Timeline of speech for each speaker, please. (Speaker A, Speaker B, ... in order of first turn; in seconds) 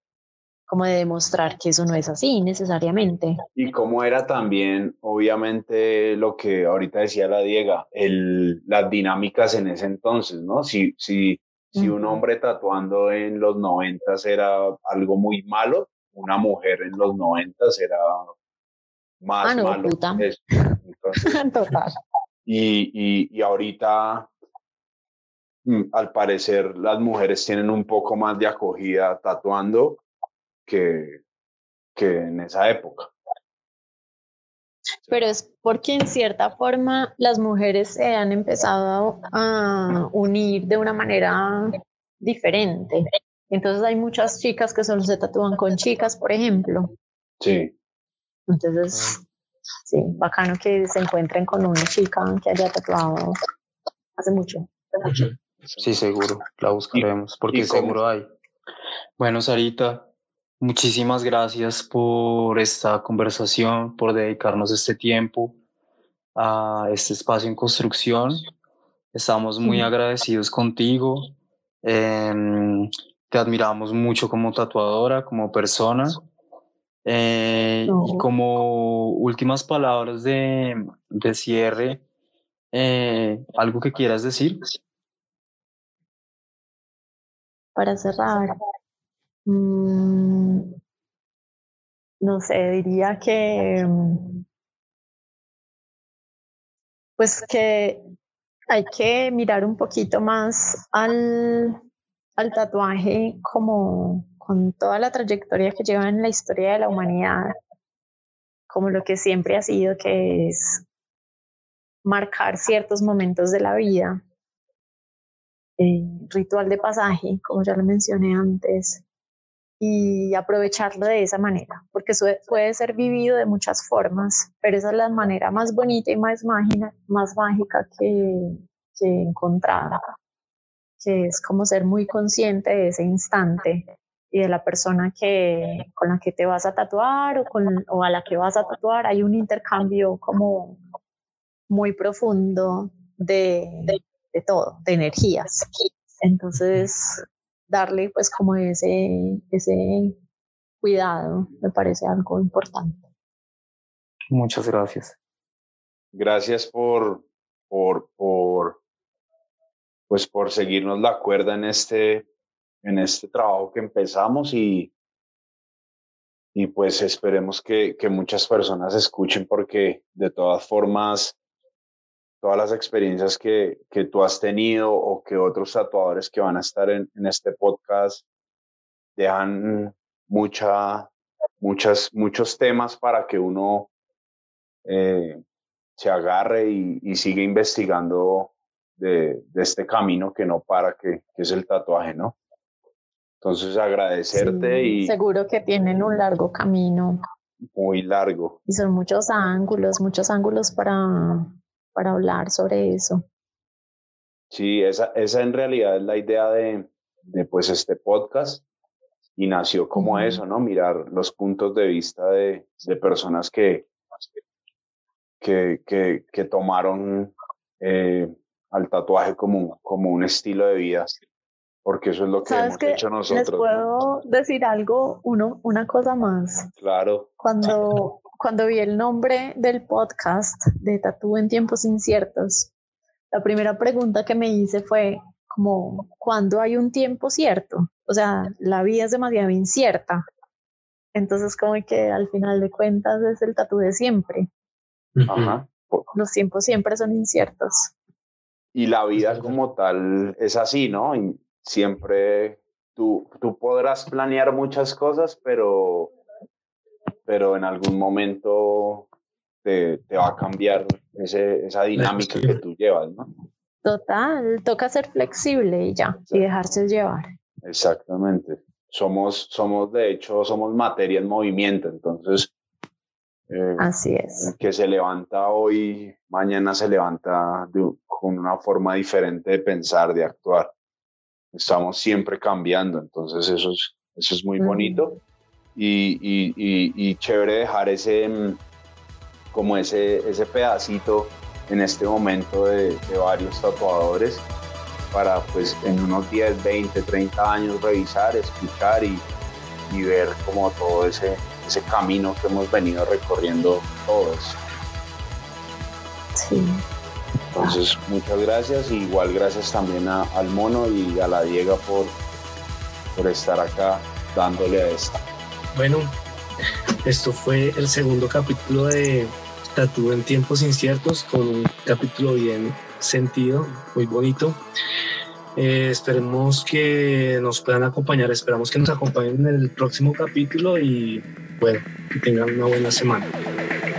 Speaker A: 0.7-3.4, 11.7-12.2, 19.4-22.0, 35.1-46.9, 48.5-49.2, 49.9-53.4, 54.2-55.1, 69.6-69.9, 77.8-78.2, 87.7-88.5, 89.5-90.7, 92.2-94.4, 97.2-98.0, 98.7-101.8, 102.4-107.5, 108.7-110.8, 112.0-114.2, 115.8-119.0, 119.8-130.0, 131.0-140.8, 141.7-145.7, 146.2-150.2, 150.8-153.0, 194.3-197.2, 198.7-203.2, 209.9-210.4, 222.4-226.7, 227.4-232.7, 233.3-240.2, 241.1-244.5, 246.1-247.9, 263.8-267.3, 273.8-274.5, 284.6-285.1, 306.4-306.8
Speaker B: 3.5-18.3, 19.2-21.4, 22.4-24.3, 25.6-30.0, 30.7-31.2, 31.9-33.1, 47.4-47.7, 56.9-58.0, 156.1-158.8, 160.1-162.2, 162.8-164.9, 166.5-171.3, 172.4-178.2, 179.2-181.1, 181.6-183.9, 184.8-185.4, 186.0-192.3, 193.4-195.2, 197.7-198.6, 204.5-208.6, 209.4-213.9, 215.4-221.1, 221.8-223.8, 226.8-227.3, 245.3-246.1, 248.7-256.1, 257.2-259.1, 259.6-263.3, 267.6-272.5, 273.5-273.9, 274.4-280.7, 281.5-285.1, 285.7-288.6, 289.5-294.4, 295.1-299.2, 299.9-304.6, 307.6-312.1, 313.1-315.2
Speaker C: 55.8-58.2, 59.2-60.1, 60.6-65.6, 66.3-68.5, 69.1-76.2, 77.0-82.0, 82.7-84.6, 154.3-155.1
Speaker D: 245.2-245.5, 249.2-249.6, 261.9-262.6, 315.7-316.1, 317.0-324.6, 325.5-333.3